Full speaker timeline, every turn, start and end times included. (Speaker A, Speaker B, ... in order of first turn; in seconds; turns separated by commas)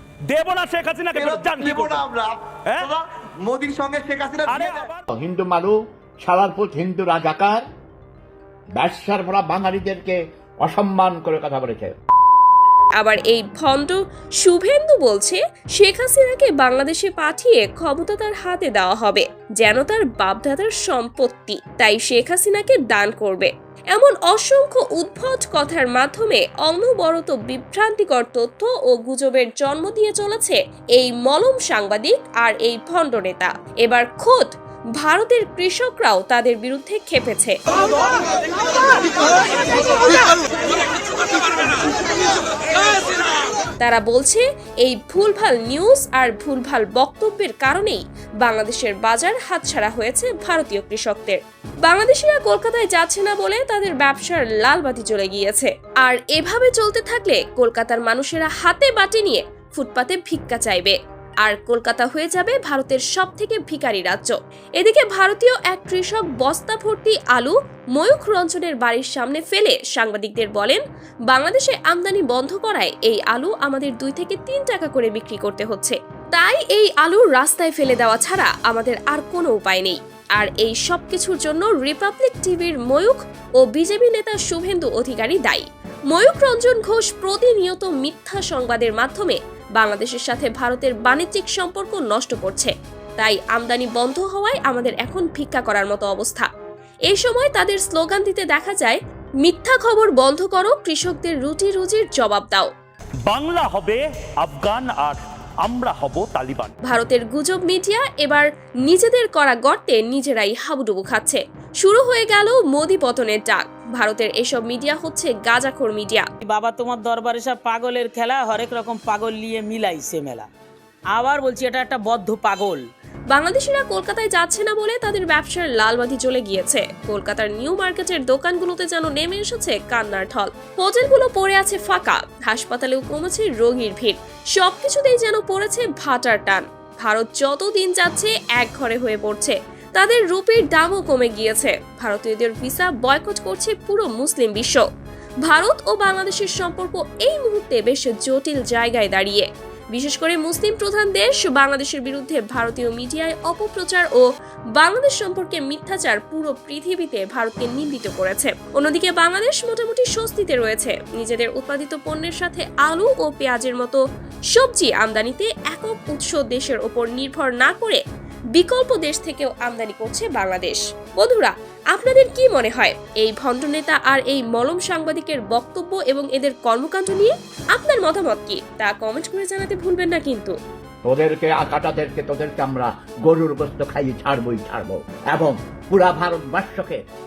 Speaker A: 0.3-2.0, Speaker B: 1.1-4.9, Speaker A: 2.7-2.9, Speaker A: 4.5-5.0, Speaker C: 5.1-7.6, Speaker C: 8.7-12.0, Speaker D: 13.0-37.6, Speaker D: 43.8-96.5, Speaker D: 97.1-102.7, Speaker A: 103.3-106.7, Speaker D: 106.8-116.3, Speaker E: 116.4-120.5, Speaker E: 121.1-122.8, Speaker D: 123.3-144.8, Speaker D: 145.4-154.2, Speaker D: 154.8-164.0, Speaker D: 164.5-168.0, Speaker D: 168.5-180.5, Speaker C: 181.1-187.0